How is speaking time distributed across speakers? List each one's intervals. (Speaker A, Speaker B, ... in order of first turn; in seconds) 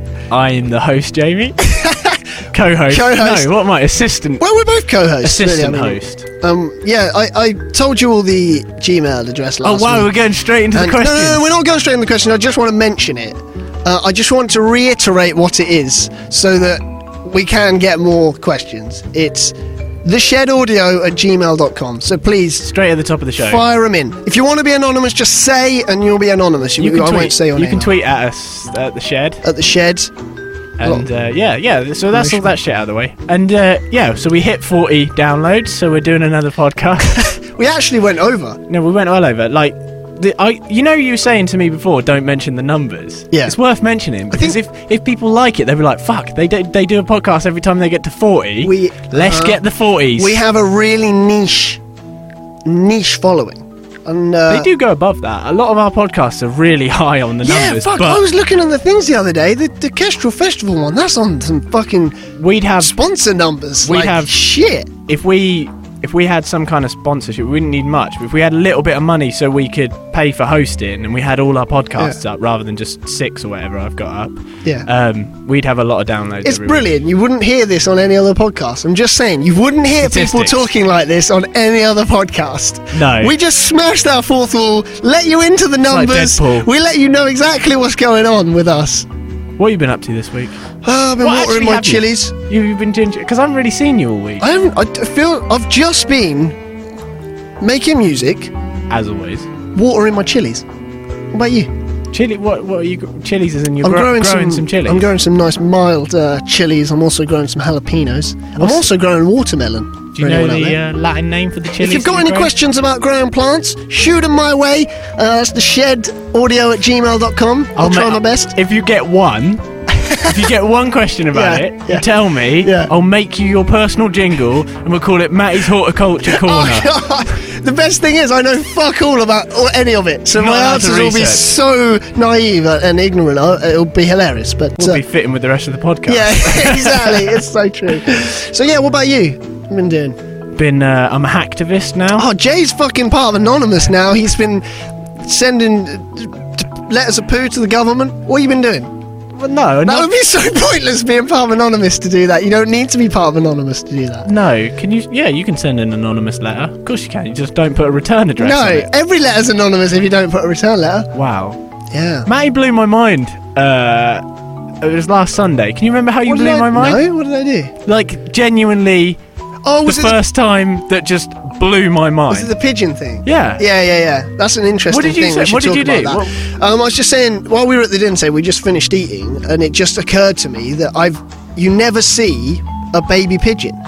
Speaker A: 0.3-1.6, 2.5-4.4, 5.2-6.2, 9.6-11.5, 22.6-23.6, 26.8-29.4, 30.8-37.3, 38.7-50.4, 54.5-58.2, 62.4-63.0, 63.8-64.3, 65.1-76.9, 80.0-80.7, 82.9-83.3, 85.9-86.7, 89.6-90.6, 91.2-94.5, 98.9-99.5, 102.1-105.1, 108.6-108.8, 110.1-112.5, 117.8-126.9, 130.3-131.4, 134.8-137.4, 140.5-142.2, 149.3-150.1, 154.2-158.9, 161.1-161.6, 162.2-164.2, 164.8-167.0, 167.8-169.2, 169.8-172.5, 173.2-173.6, 174.9-176.3
Speaker B: 1.6-2.2, 2.9-3.5, 4.4-10.1, 10.7-22.7, 23.4-27.9, 29.4-30.1, 32.1-32.5, 37.1-38.6, 44.3-44.6, 48.6-49.6, 50.1-51.8, 52.6-54.7, 57.4-62.2, 62.8-64.9, 76.4-89.1, 90.8-92.3, 94.4-96.6, 97.6-98.5, 99.7-100.6, 101.3-101.7, 103.8-110.8, 111.8-118.5, 119.9-120.5, 121.3-122.1, 122.6-122.9, 126.2-135.0, 136.1-140.2, 142.2-144.6, 145.2-148.9, 149.8-154.3, 158.4-161.1, 161.9-162.3, 166.2-167.7, 169.6-170.2, 172.3-183.8